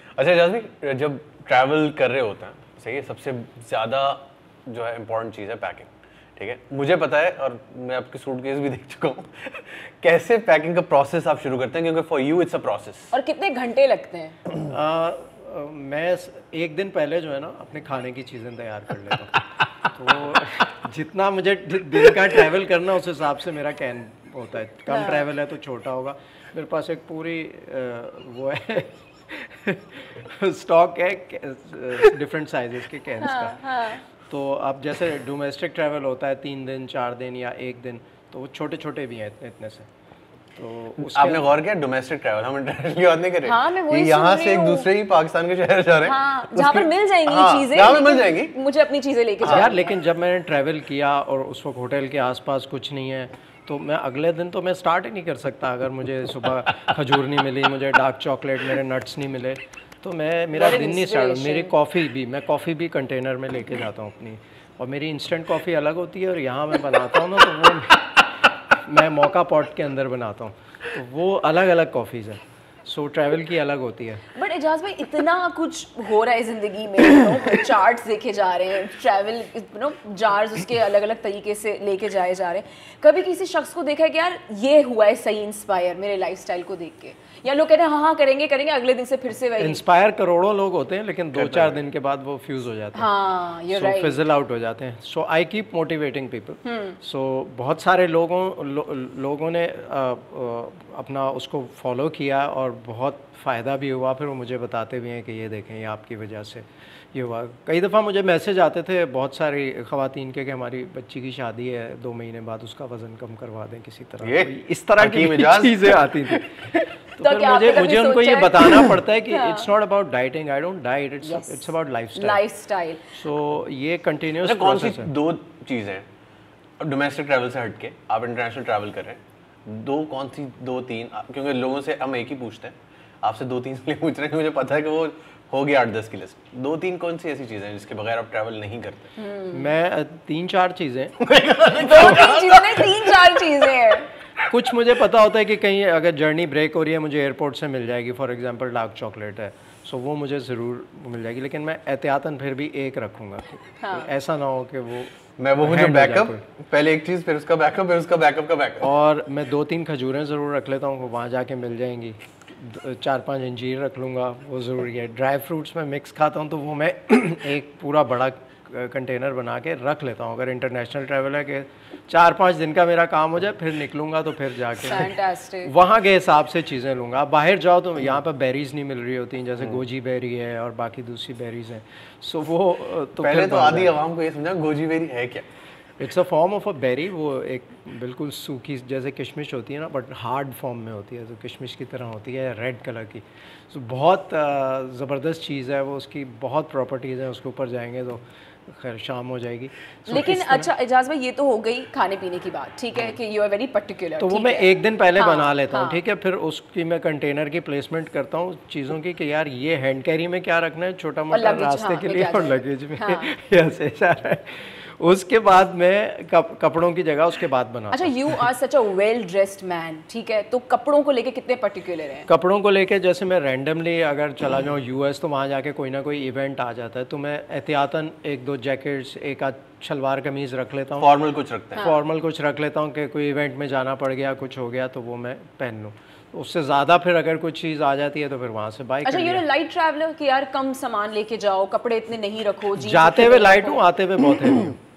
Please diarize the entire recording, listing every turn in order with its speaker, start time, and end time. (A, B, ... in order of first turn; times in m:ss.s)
0:00.2-0:13.1 A
0:13.1-0:14.4 B
0:14.6-0:33.7 C
0:24.9-0:25.2 B
0:33.2-0:34.0 B
0:34.2-0:39.9 C
0:40.6-0:41.5 C
0:41.0-0:48.5 A
0:43.4-0:44.9 B
0:46.0-0:49.9 B
0:49.4-1:08.1 C
1:00.5-1:01.7 B
1:08.7-1:14.2 C
1:14.3-1:29.8 B
1:29.6-1:33.1 C
1:31.4-1:31.8 A
1:33.0-1:34.2 B
1:33.7-2:02.4 C
1:36.6-1:37.0 B
1:54.2-1:56.4 A
1:57.2-1:59.7 B
2:01.2-2:03.1 B
2:03.1-2:05.1 C
2:04.4-2:06.0 A
2:06.8-2:19.1 A
2:19.2-2:19.7 B
2:19.5-2:21.2 C
2:21.2-2:23.1 A
2:21.8-2:24.1 B
2:21.9-2:22.3 C
2:24.5-2:36.4 C
2:33.8-2:34.1 B
2:35.4-2:38.9 A
2:38.8-3:04.0 C
2:54.8-2:55.7 B
3:03.2-3:05.5 A
3:06.0-3:20.7 C
3:20.1-3:26.0 B
3:24.2-3:38.5 C
3:31.3-3:33.3 B
3:37.9-3:42.3 B
3:42.3-3:51.1 C
3:51.0-3:51.8 A
3:51.8-3:59.4 C
3:59.0-4:03.8 B
4:02.8-4:04.8 C